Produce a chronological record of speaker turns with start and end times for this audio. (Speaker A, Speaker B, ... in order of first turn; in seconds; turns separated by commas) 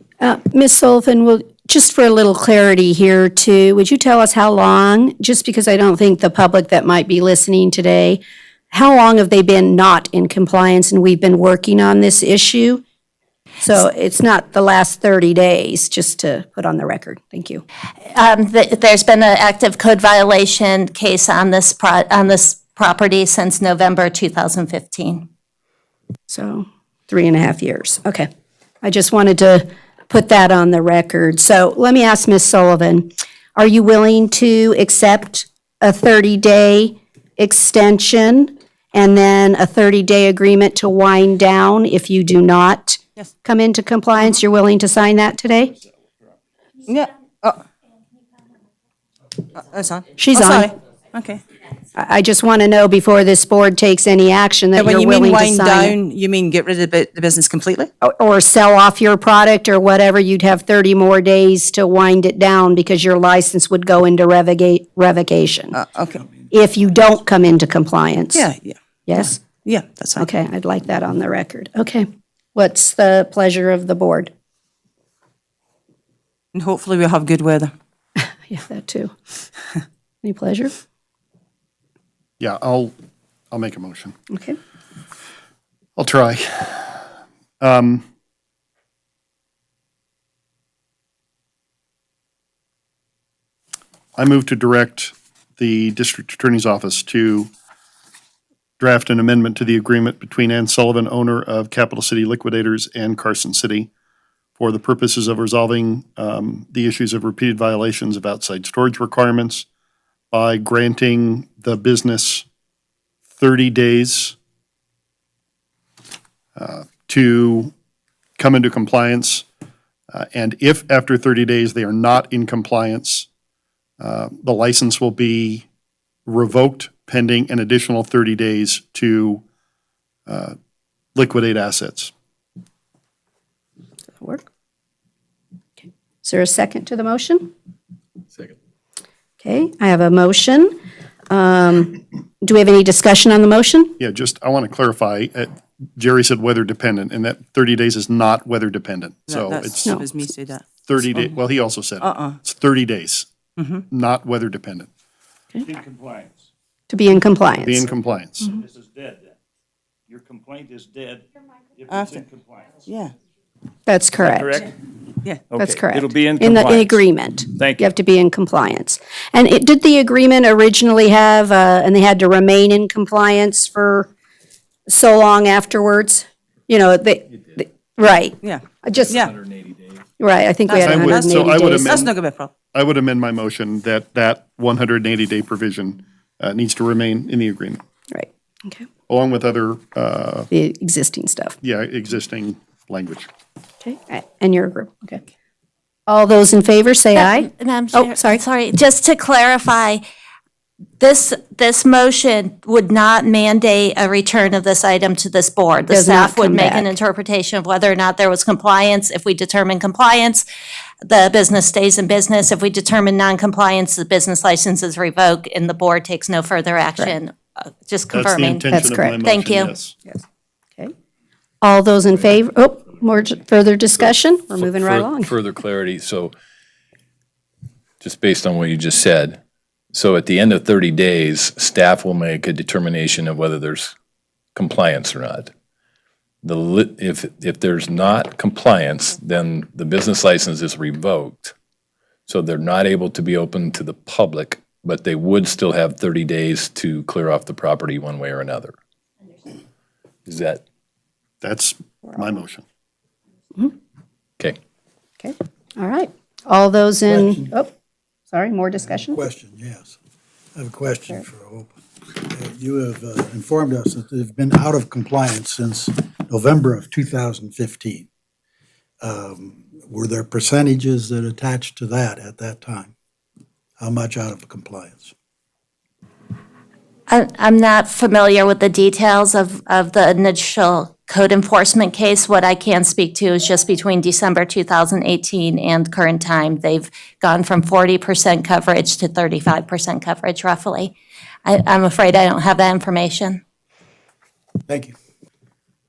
Speaker A: 0.2-12.8, Speaker A: 13.6-17.6, Speaker B: 18.1-25.2, Speaker A: 26.3-28.3, Speaker A: 28.8-45.7, Speaker C: 46.9-47.6, Speaker C: 49.5-51.4, Speaker A: 50.2-50.7, Speaker A: 51.9-56.0, Speaker C: 54.7-57.9, Speaker A: 58.0-65.8, Speaker C: 65.7-66.3, Speaker A: 66.4-68.5, Speaker C: 68.3-70.3, Speaker A: 69.1-69.4, Speaker A: 70.2-74.3, Speaker C: 76.5-77.7, Speaker A: 78.5-79.1, Speaker A: 80.2-80.7, Speaker D: 82.4-82.9, Speaker D: 83.5-84.1, Speaker D: 86.0-87.0, Speaker D: 87.6-88.0, Speaker D: 94.2-97.5, Speaker D: 98.8-103.9, Speaker D: 104.6-109.7, Speaker D: 110.3-112.5, Speaker D: 113.3-114.3, Speaker D: 116.5-117.7, Speaker D: 118.4-119.5, Speaker D: 120.1-123.3, Speaker D: 124.0-125.7, Speaker D: 126.2-129.4, Speaker D: 130.3-130.6, Speaker D: 131.1-132.1, Speaker A: 134.2-134.4, Speaker A: 135.8-137.5, Speaker A: 139.4-140.8, Speaker A: 141.3-143.9, Speaker D: 144.0-149.9, Speaker C: 149.3-151.4, Speaker D: 150.8-153.3, Speaker C: 152.0-152.4, Speaker C: 153.6-153.8, Speaker D: 153.9-154.9, Speaker E: 155.7-156.3, Speaker A: 156.9-157.9, Speaker D: 157.6-158.5, Speaker E: 158.5-159.3, Speaker E: 160.1-161.2, Speaker E: 161.8-162.6, Speaker C: 161.9-162.2, Speaker C: 162.8-163.1, Speaker A: 163.9-164.7, Speaker E: 164.3-164.6, Speaker E: 165.5-166.9, Speaker A: 165.5-174.1, Speaker E: 167.6-167.8, Speaker A: 174.9-179.2, Speaker C: 178.4-179.3, Speaker A: 180.2-181.8, Speaker C: 180.7-182.5, Speaker D: 180.8-182.1, Speaker D: 182.7-187.8, Speaker A: 188.1-188.8, Speaker D: 189.1-190.5, Speaker A: 190.5-191.6, Speaker D: 191.6-193.3, Speaker A: 193.8-195.2, Speaker A: 196.1-198.4, Speaker B: 197.2-200.0, Speaker B: 201.0-210.4, Speaker A: 205.9-206.9, Speaker B: 211.0-219.7, Speaker D: 218.1-220.0, Speaker A: 218.7-219.2, Speaker A: 221.6-225.3, Speaker F: 224.6-226.3, Speaker F: 228.0-229.4, Speaker F: 229.9-233.9, Speaker F: 234.5-235.5, Speaker F: 236.4-241.5, Speaker F: 242.3-248.7, Speaker F: 250.2-250.6, Speaker D: 251.4-252.6, Speaker A: 255.2-257.7, Speaker G: 257.1-257.4, Speaker A: 258.3-259.2, Speaker G: 259.1-259.9, Speaker G: 260.6-261.7, Speaker G: 262.4-268.1, Speaker G: 269.1-272.9, Speaker G: 273.8-275.1, Speaker B: 277.1-290.9, Speaker B: 291.4-293.4